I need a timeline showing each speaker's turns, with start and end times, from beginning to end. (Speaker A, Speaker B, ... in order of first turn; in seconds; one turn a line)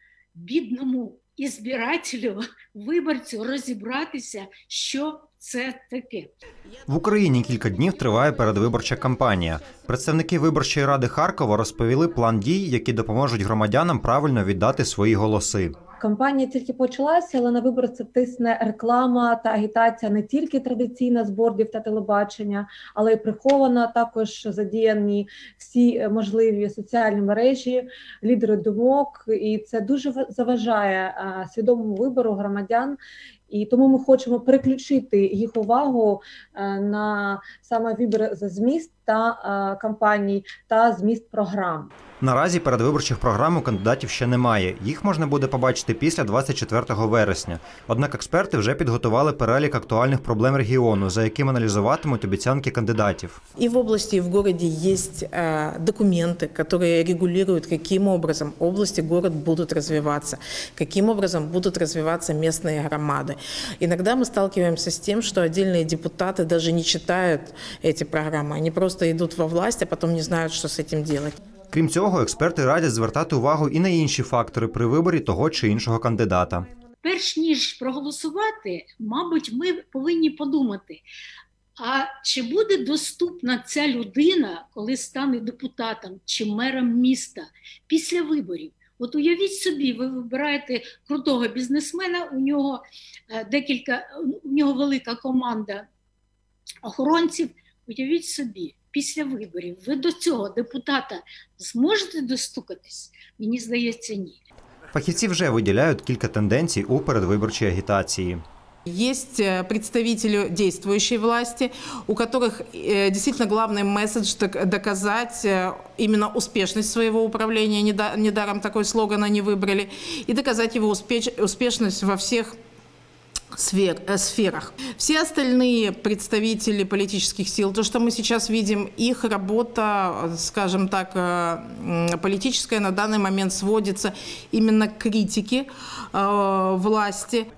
Speaker A: 0.3-6.3
Speaker B: 6.9-15.8
Speaker C: 16.0-33.0
Speaker C: 33.5-41.9
Speaker B: 42.2-53.4
Speaker D: 53.6-71.4
Speaker B: 71.7-76.7
Speaker A: 77.0-81.0
Speaker A: 81.8-95.8
Speaker A: 96.8-104.4
Speaker B: 104.9-108.4
Speaker D: 108.9-122.5
Speaker D: 123.5-137.5